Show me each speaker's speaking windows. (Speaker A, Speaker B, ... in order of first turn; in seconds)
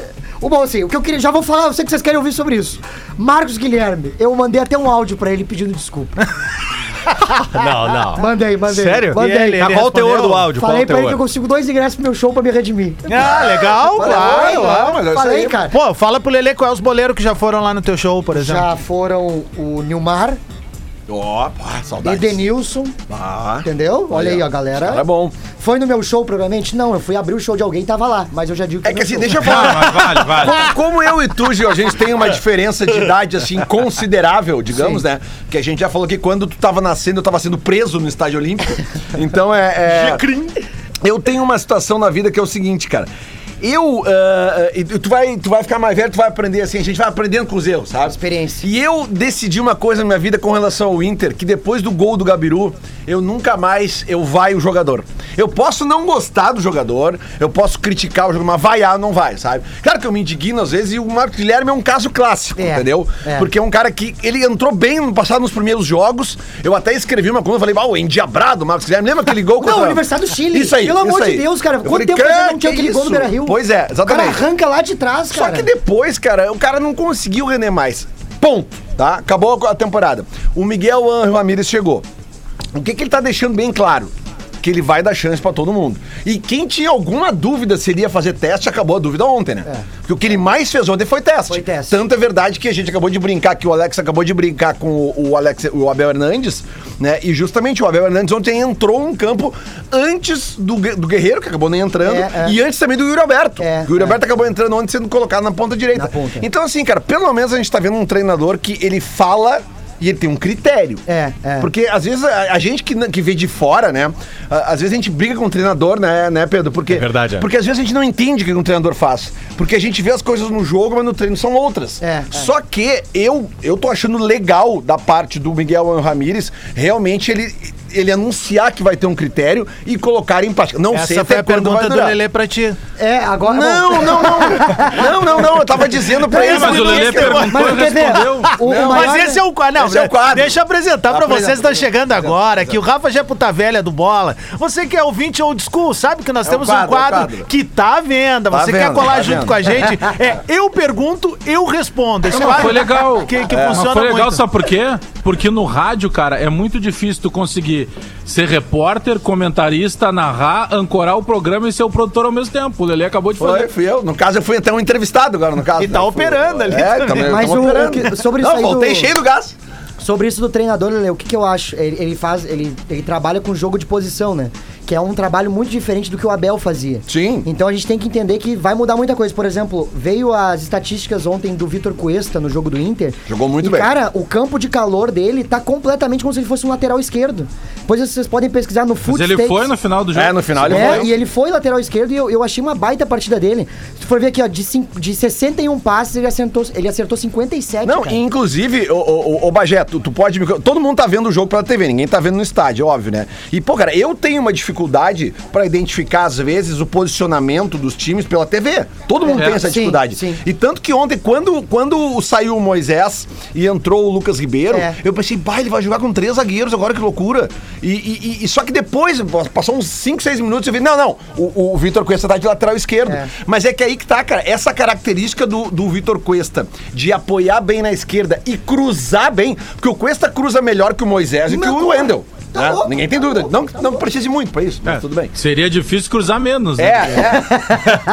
Speaker A: 0.4-6.1, 8.1-9.6, 10.5-13.2, 14.0-15.8, 18.3-20.4, 22.0-22.9, 23.6-29.7, 48.0-48.7, 62.6-63.5, 69.6-75.7, 91.5-92.0, 102.0-102.5, 103.6-104.2, 105.9-106.5, 111.1-111.7, 122.0-122.5, 133.0-135.3, 136.3-139.4, 167.2-169.1, 170.0-189.7, 190.6-198.2, 209.2-210.4, 231.5-233.9
Speaker B: 7.5-11.2, 116.9-117.4
Speaker C: 9.1-10.5, 13.1-14.8, 15.7-18.7, 130.9-132.8, 136.5-154.4, 165.8-167.7
Speaker D: 13.1-15.6, 21.1-22.4, 23.1-25.3, 28.8-40.3, 41.0-43.1, 43.6-74.4, 75.3-82.0, 82.7-111.0, 111.6-132.2, 133.4-137.7, 138.6-139.2, 139.8-142.8, 146.4-147.5, 148.5-149.7, 153.5-153.9, 163.4-169.6, 177.1-177.5, 183.3-183.9, 190.1-191.1, 197.8-235.3, 236.8-237.8
Speaker E: 29.4-30.7, 136.3-138.5, 152.3-163.7, 189.0-191.1, 234.9-237.4